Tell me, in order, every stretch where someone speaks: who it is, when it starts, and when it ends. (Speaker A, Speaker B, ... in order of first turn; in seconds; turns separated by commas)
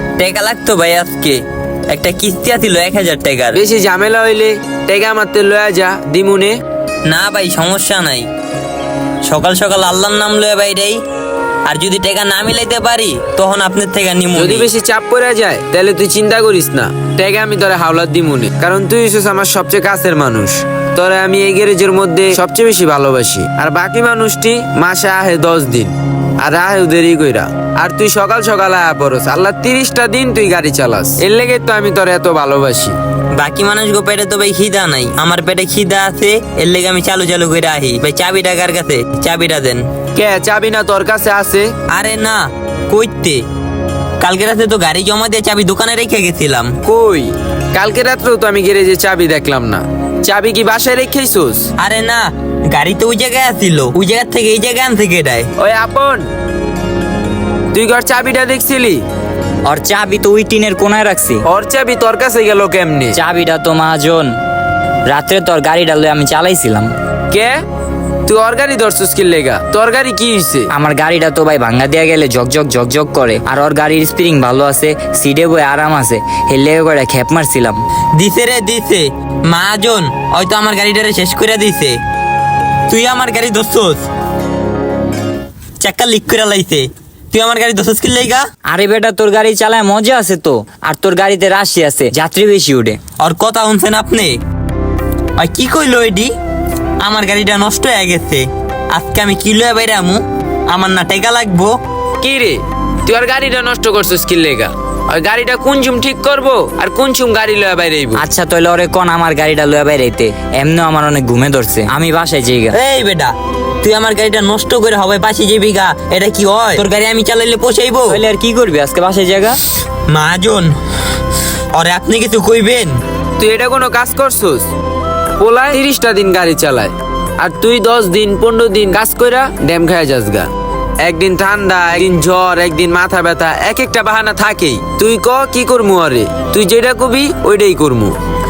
Speaker A: 0.2-3.6, Speaker B: 3.5-6.6, Speaker A: 7.1-8.3, Speaker A: 9.2-11.0, Speaker A: 11.7-14.7, Speaker B: 14.3-33.0, Speaker A: 33.4-39.9, Speaker B: 40.1-41.7, Speaker A: 41.9-43.4, Speaker A: 44.2-46.7, Speaker B: 46.8-51.7, Speaker A: 51.8-55.5, Speaker B: 55.6-56.2, Speaker B: 57.7-59.0, Speaker C: 59.7-61.4, Speaker B: 61.5-63.2, Speaker C: 63.1-64.3, Speaker C: 65.1-66.9, Speaker B: 67.3-67.6, Speaker B: 68.3-70.7, Speaker C: 70.7-77.8, Speaker A: 78.2-82.0, Speaker A: 82.9-84.1, Speaker A: 85.8-88.5, Speaker C: 88.7-93.0, Speaker A: 93.2-94.4, Speaker A: 95.4-96.3, Speaker A: 97.0-101.8, Speaker B: 102.2-108.2, Speaker C: 108.2-112.8, Speaker A: 112.7-118.2, Speaker C: 118.1-119.6, Speaker A: 120.1-120.7, Speaker A: 121.7-123.0, Speaker B: 123.4-124.7, Speaker B: 125.4-130.5, Speaker B: 131.0-138.2